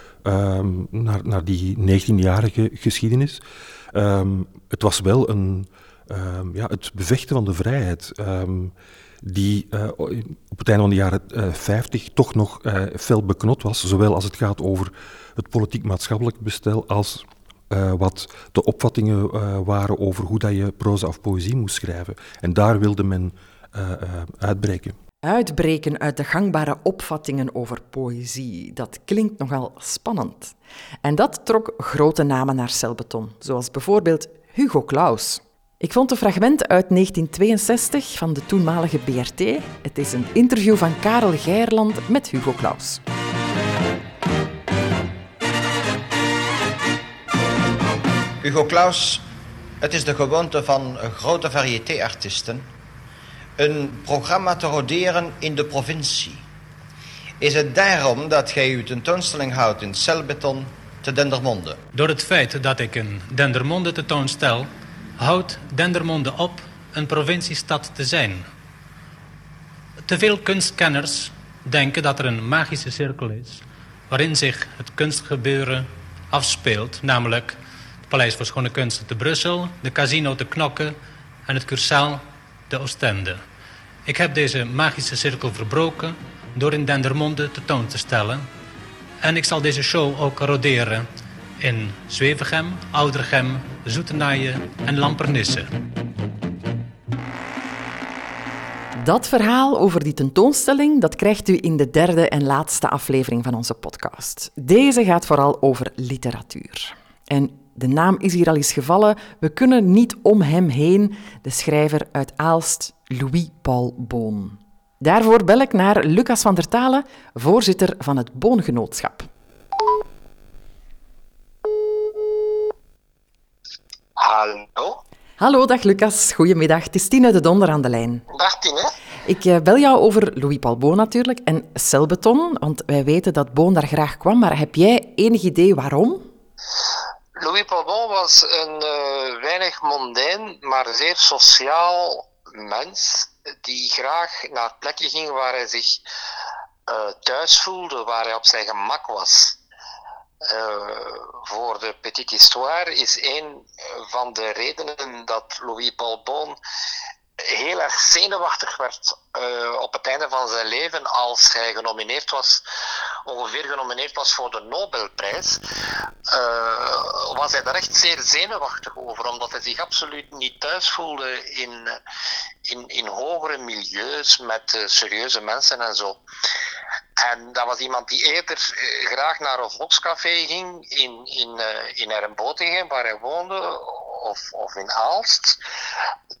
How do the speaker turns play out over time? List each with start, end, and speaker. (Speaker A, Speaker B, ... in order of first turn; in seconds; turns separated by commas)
Speaker A: 0.2-24.9, Speaker B: 25.2-43.0, Speaker C: 48.4-49.2, Speaker C: 49.8-52.7, Speaker C: 53.6-56.5, Speaker C: 57.4-61.8, Speaker D: 61.9-68.5, Speaker D: 70.0-83.4, Speaker D: 84.0-88.5, Speaker D: 89.2-91.1, Speaker D: 91.6-95.7, Speaker B: 99.0-119.3, Speaker E: 124.2-125.0, Speaker B: 125.4-128.2, Speaker E: 128.3-128.9, Speaker B: 129.2-136.3, Speaker E: 137.3-146.0, Speaker E: 146.9-149.6, Speaker E: 150.4-156.6, Speaker E: 157.4-162.7, Speaker E: 163.2-165.6, Speaker E: 166.3-172.0, Speaker E: 172.6-176.2, Speaker E: 177.2-185.6